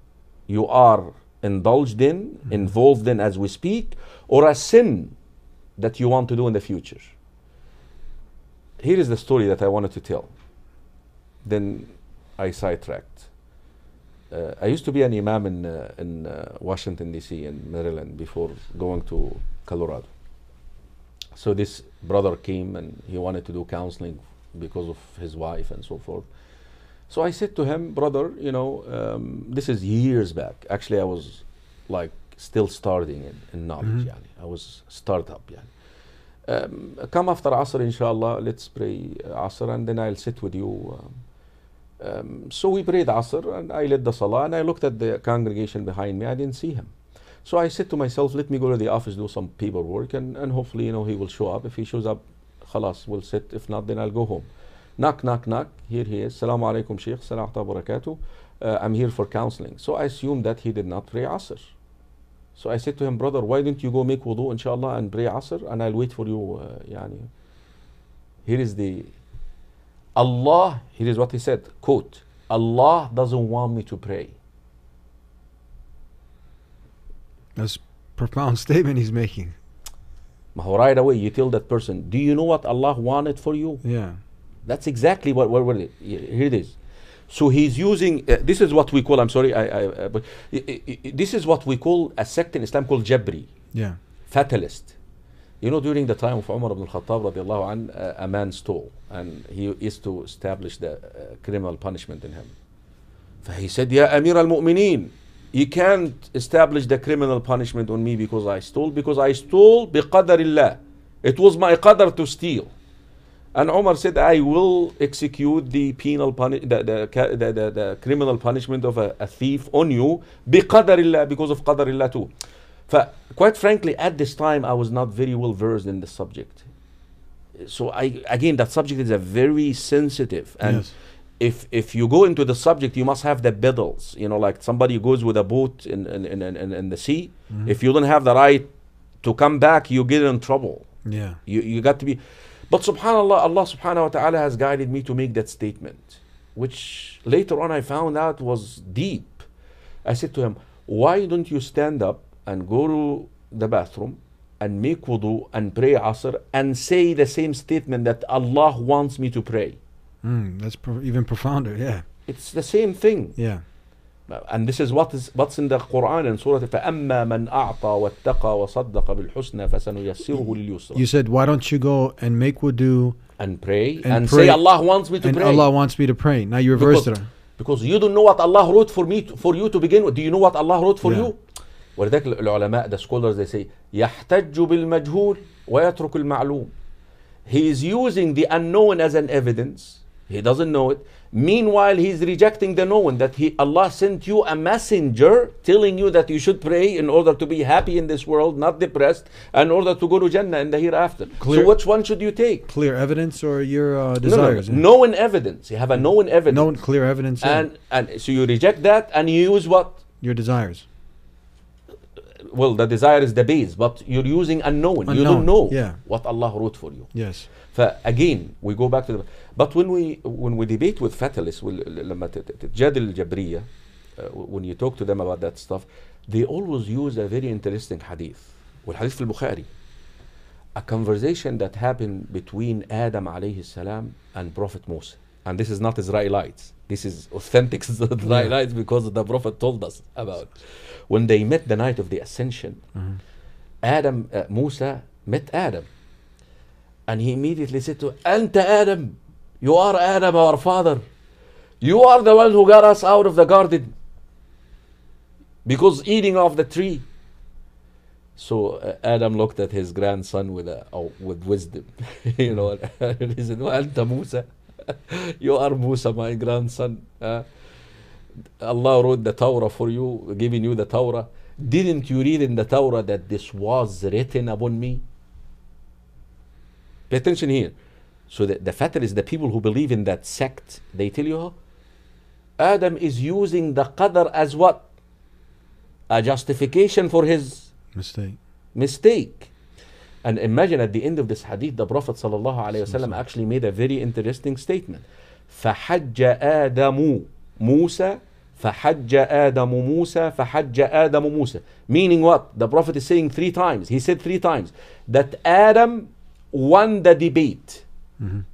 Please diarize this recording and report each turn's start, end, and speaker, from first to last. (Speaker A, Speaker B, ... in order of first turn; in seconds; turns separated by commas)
Speaker A: 0.5-5.2, Speaker A: 5.8-7.2, Speaker A: 8.8-10.3, Speaker A: 11.4-13.3, Speaker A: 14.3-20.1, Speaker A: 21.3-26.3, Speaker A: 27.1-35.7, Speaker A: 36.5-41.2, Speaker A: 42.0-46.9, Speaker A: 47.4-61.7, Speaker A: 62.6-67.3, Speaker A: 68.4-69.1, Speaker A: 70.2-74.4, Speaker B: 77.6-79.6, Speaker A: 80.5-83.8, Speaker B: 83.8-84.2, Speaker A: 84.7-86.8, Speaker A: 87.3-93.5, Speaker B: 93.7-94.0, Speaker A: 94.3-95.0, Speaker A: 95.6-102.5, Speaker A: 103.4-112.7, Speaker A: 113.5-122.3, Speaker A: 122.9-126.7, Speaker A: 127.6-138.7, Speaker B: 130.6-130.9, Speaker A: 139.2-140.9, Speaker B: 141.1-141.4, Speaker A: 141.5-149.5, Speaker A: 150.0-159.8, Speaker B: 160.2-162.1, Speaker A: 162.3-163.4, Speaker B: 163.4-163.6, Speaker A: 164.3-171.1, Speaker B: 170.9-173.2, Speaker A: 173.4-175.7, Speaker B: 174.0-174.6, Speaker B: 175.2-177.3, Speaker A: 176.7-181.4, Speaker B: 181.0-181.3, Speaker A: 182.0-186.7, Speaker A: 187.5-202.7, Speaker B: 201.4-201.8, Speaker B: 202.7-204.8, Speaker A: 204.2-206.7, Speaker B: 206.5-207.7, Speaker A: 207.4-210.0, Speaker B: 210.2-210.9, Speaker A: 212.4-229.7, Speaker B: 215.1-216.0, Speaker B: 217.1-217.5, Speaker A: 230.8-242.8, Speaker B: 238.2-238.5, Speaker B: 242.9-243.2, Speaker A: 243.8-245.9, Speaker A: 247.1-251.0, Speaker A: 251.8-253.9, Speaker A: 255.7-257.1, Speaker A: 258.4-267.5, Speaker A: 268.6-275.0, Speaker A: 277.1-277.8, Speaker A: 278.3-281.5, Speaker A: 282.6-284.9, Speaker A: 286.1-287.7, Speaker B: 287.9-288.4, Speaker A: 288.8-289.5, Speaker A: 290.2-307.8, Speaker B: 308.2-308.4